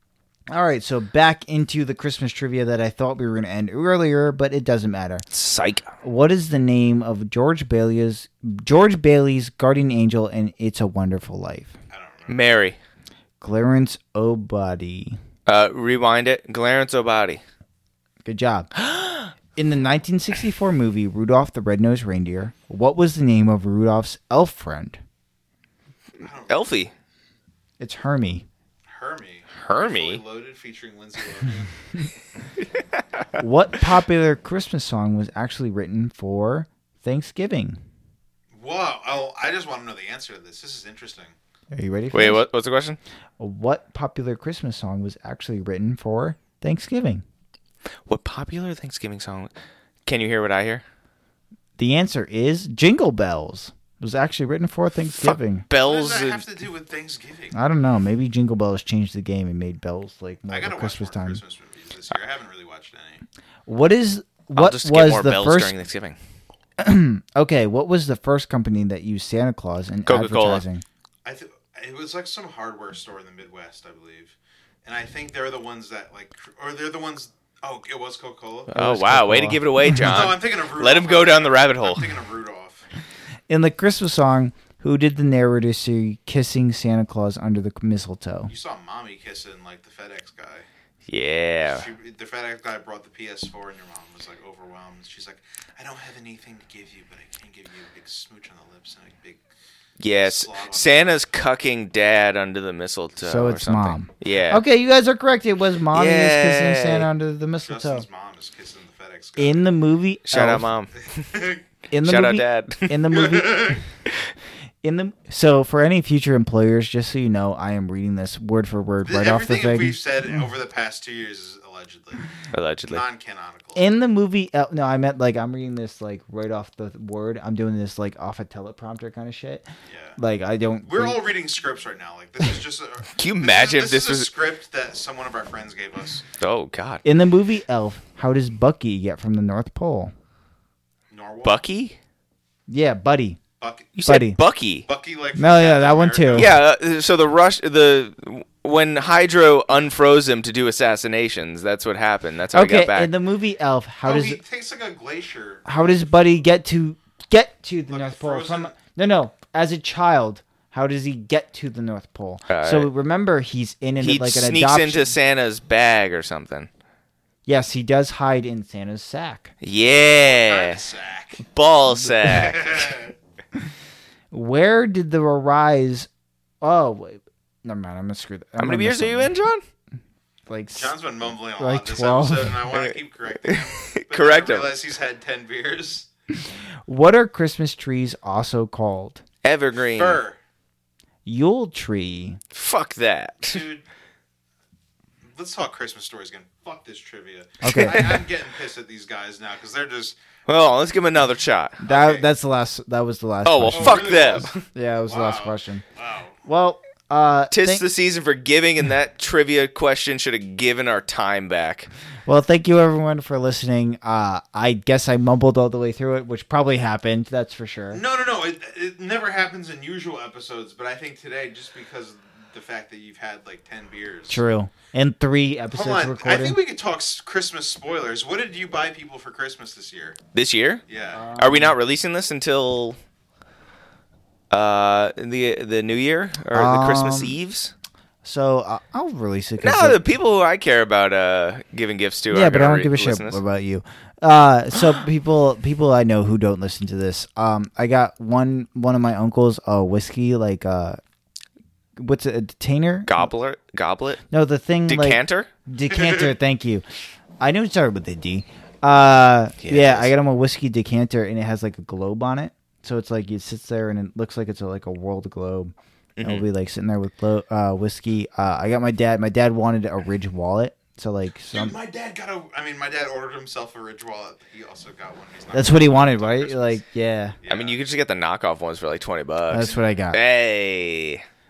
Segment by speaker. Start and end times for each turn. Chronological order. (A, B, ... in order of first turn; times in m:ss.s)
0:00.5-0:05.3 A
0:05.3-0:05.9 B
0:06.0-0:11.7 A
0:11.9-0:12.4 C
0:12.3-0:12.8 B
0:13.4-0:15.2 A
0:15.4-0:17.4 B
0:18.2-0:18.7 A
0:18.8-0:19.3 B
0:19.6-0:25.0 A
0:26.2-0:26.8 C
0:26.5-0:26.9 B
0:27.8-0:28.4 A
0:28.9-0:31.7 C
0:29.6-0:30.2 B
0:33.0-0:33.2 B
0:33.4-0:37.8 A
0:38.5-0:41.3 C
0:41.7-0:42.4 A
0:42.1-0:43.0 B
0:43.4-0:47.2 A
0:48.1-0:49.5 B
0:50.0-0:50.8 B
0:51.8-0:55.6 A
0:55.1-0:56.4 B
0:55.7-0:57.6 C
0:57.5-1:01.4 A
1:00.5-1:03.2 C
1:03.7-1:05.8 A
1:04.6-1:06.2 B
1:06.8-1:10.8 A
1:10.0-1:10.6 B
1:11.2-1:14.3 C
1:14.8-1:18.8 C
1:18.7-1:22.1 B
1:18.7-1:20.1 A
1:19.9-1:22.8 C
1:23.5-1:28.5 A
1:28.5-1:30.6 C
1:31.1-1:31.9 B
1:31.7-1:39.4 C
1:40.0-1:44.6 B
1:40.1-1:41.2 C
1:43.2-1:48.0 A
1:45.9-1:47.1 B
1:47.6-1:49.7 C
1:49.4-1:50.7 A
1:50.3-1:51.3 B
1:51.0-1:51.6 C
1:51.9-1:53.8 A
1:52.0-1:53.0 B
1:53.1-1:53.8 C
1:54.8-2:00.0 A
1:59.0-2:02.3 C
2:02.5-2:03.0 B
2:02.9-2:03.8 C
2:03.7-2:09.6 A
2:09.9-2:10.2 C
2:10.2-2:11.2 A
2:10.9-2:16.2 C
2:13.2-2:14.3 B
2:16.4-2:17.0 B
2:17.0-2:20.1 A
2:21.1-2:21.6 C
2:21.4-2:22.0 B
2:22.7-2:23.4 A
2:23.6-2:23.9 C
2:23.9-2:24.9 B
2:24.0-2:24.4 A
2:24.9-2:26.6 C
2:25.4-2:26.5 A
2:26.3-2:33.1 B
2:32.5-2:34.4 A
2:34.0-2:35.8 C
2:35.6-2:45.1 A
2:37.9-2:38.7 C
2:42.5-2:42.9 B
2:44.0-2:46.7 B
2:47.4-2:49.5 A
2:49.6-2:50.8 B
2:50.2-2:51.4 C
2:51.4-2:53.0 B
2:52.2-2:53.1 C
2:54.3-2:56.1 A
2:56.6-2:59.3 A
2:58.6-2:59.6 B
3:00.5-3:00.9 A
3:00.8-3:06.1 C
3:01.6-3:02.6 A
3:02.7-3:04.7 B
3:06.9-3:09.2 A
3:09.4-3:10.2 B
3:09.8-3:10.4 C
3:11.2-3:12.4 A
3:12.5-3:13.6 B
3:13.4-3:13.8 C
3:15.3-3:20.2 C
3:17.6-3:18.2 A
3:17.7-3:18.1 B
3:20.5-3:21.8 B
3:21.8-3:22.3 C
3:21.8-3:24.1 A
3:23.4-3:24.6 B
3:23.7-3:26.4 C
3:24.6-3:25.8 A
3:26.4-3:27.8 A
3:27.5-3:31.9 B
3:32.3-3:38.0 A
3:37.9-3:44.4 C
3:44.3-3:46.6 A
3:45.7-3:50.2 C
3:50.3-3:50.8 B
3:50.9-3:51.2 C
3:51.1-3:51.8 A
3:51.4-3:53.0 B
3:54.5-3:57.7 B
3:56.5-3:57.4 A
3:58.2-4:00.0 A
3:59.6-4:03.4 B
4:02.3-4:11.0 A
4:12.0-4:13.3 A
4:13.0-4:14.2 B
4:14.3-4:16.9 A
4:14.9-4:15.5 B
4:15.9-4:16.3 C
4:17.4-4:31.7 A
4:19.6-4:20.1 B
4:26.2-4:26.5 B
4:31.5-4:36.8 C
4:35.5-4:37.4 A
4:37.4-4:37.8 C
4:37.5-4:41.2 B
4:39.5-4:40.2 A